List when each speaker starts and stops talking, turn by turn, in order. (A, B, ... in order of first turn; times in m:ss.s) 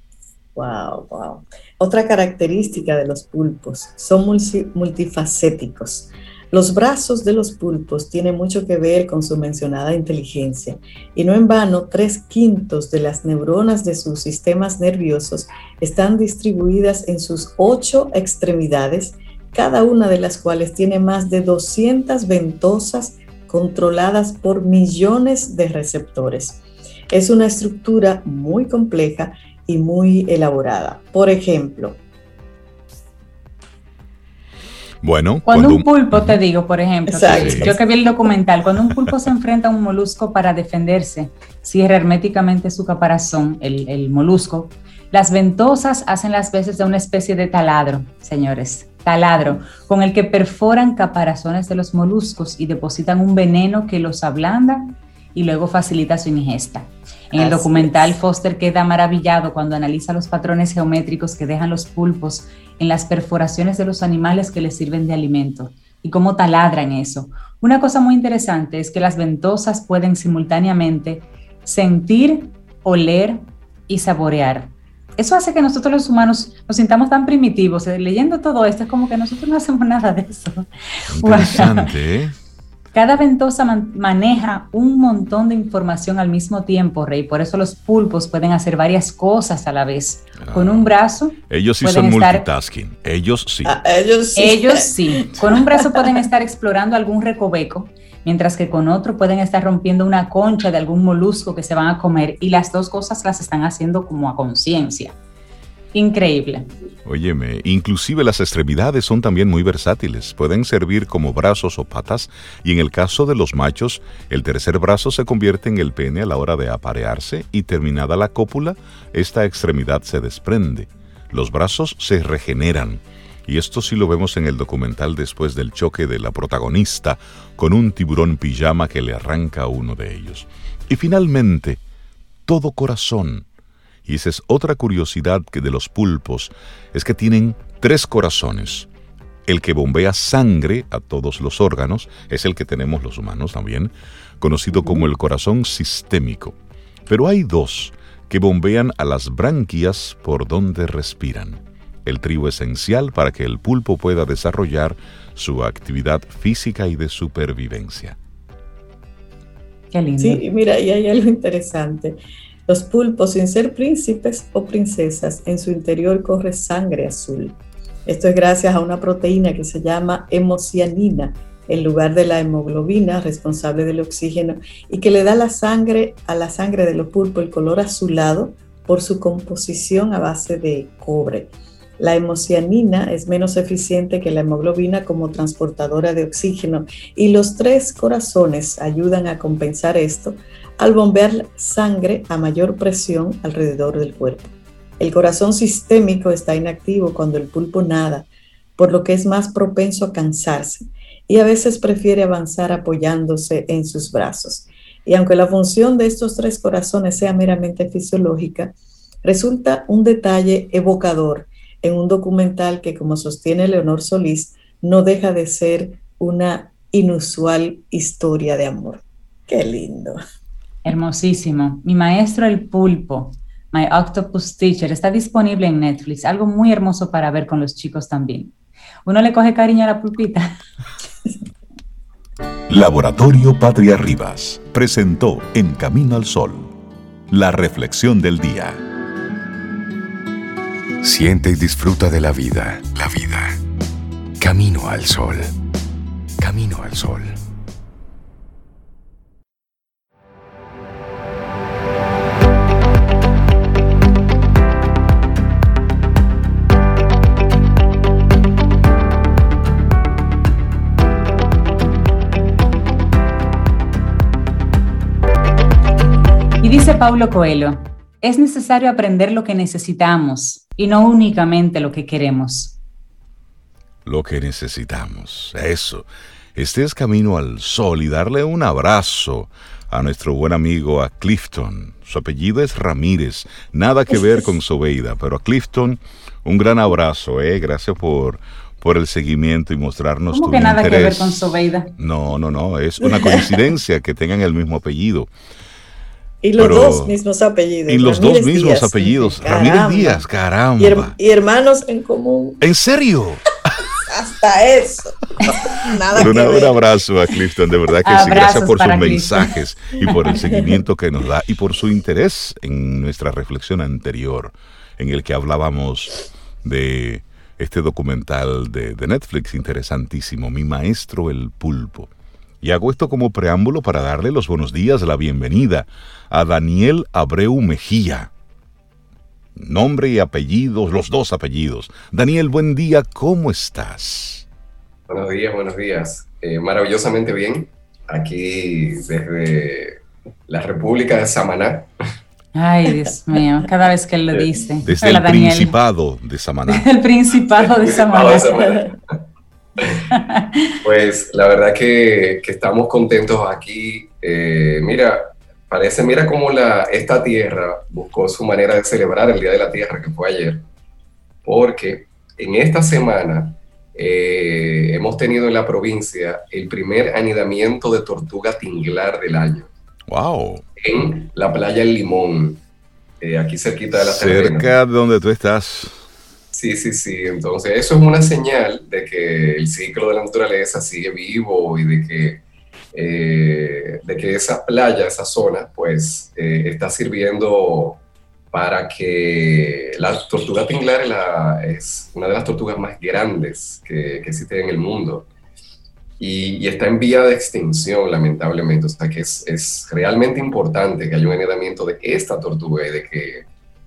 0:00.5-0:32.0 A
0:35.0-0:36.4 B
0:35.4-1:21.9 C
0:37.1-0:37.8 A
0:37.3-0:37.7 B
0:57.3-0:58.2 A
1:21.1-1:22.3 B
1:22.9-1:32.5 C
1:30.4-1:30.9 B
1:31.5-1:33.8 B
1:33.6-1:36.2 A
1:34.4-1:45.2 C
1:45.9-1:46.7 C
1:47.0-2:11.8 B
2:12.5-2:13.4 B
2:14.0-2:18.9 B
2:19.5-2:26.5 B
2:27.1-2:38.2 B
2:39.9-2:40.4 C
2:40.2-3:40.2 A
3:40.8-3:48.5 C
3:49.0-3:50.6 C
3:52.7-3:56.7 B
3:57.3-3:58.8 B
4:01.0-4:03.6 D
4:04.4-4:05.5 D
4:06.4-4:07.4 D
4:26.6-4:32.8 C
4:34.0-4:55.3 B
4:50.3-4:51.9 C
4:53.0-4:53.6 A
4:56.4-5:00.2 A
4:56.6-4:57.1 B
4:57.9-5:01.2 B
5:00.8-5:02.6 A
5:02.6-5:03.5 B
5:04.0-5:06.8 A
5:06.1-5:22.1 B
5:08.0-5:10.0 C
5:22.6-5:28.3 B
5:29.6-5:34.4 B
5:35.1-5:41.9 E
5:42.5-5:45.8 C
5:44.8-5:46.8 B
5:46.7-5:48.7 C
5:47.6-5:49.0 E
5:50.1-5:50.6 C
5:50.8-6:00.6 E
6:01.4-6:09.7 E
6:10.1-6:10.6 B
6:10.8-6:12.6 E
6:13.2-6:14.7 E
6:13.9-6:16.0 B
6:16.5-6:22.4 E
6:22.9-6:35.3 E
6:36.2-6:43.4 E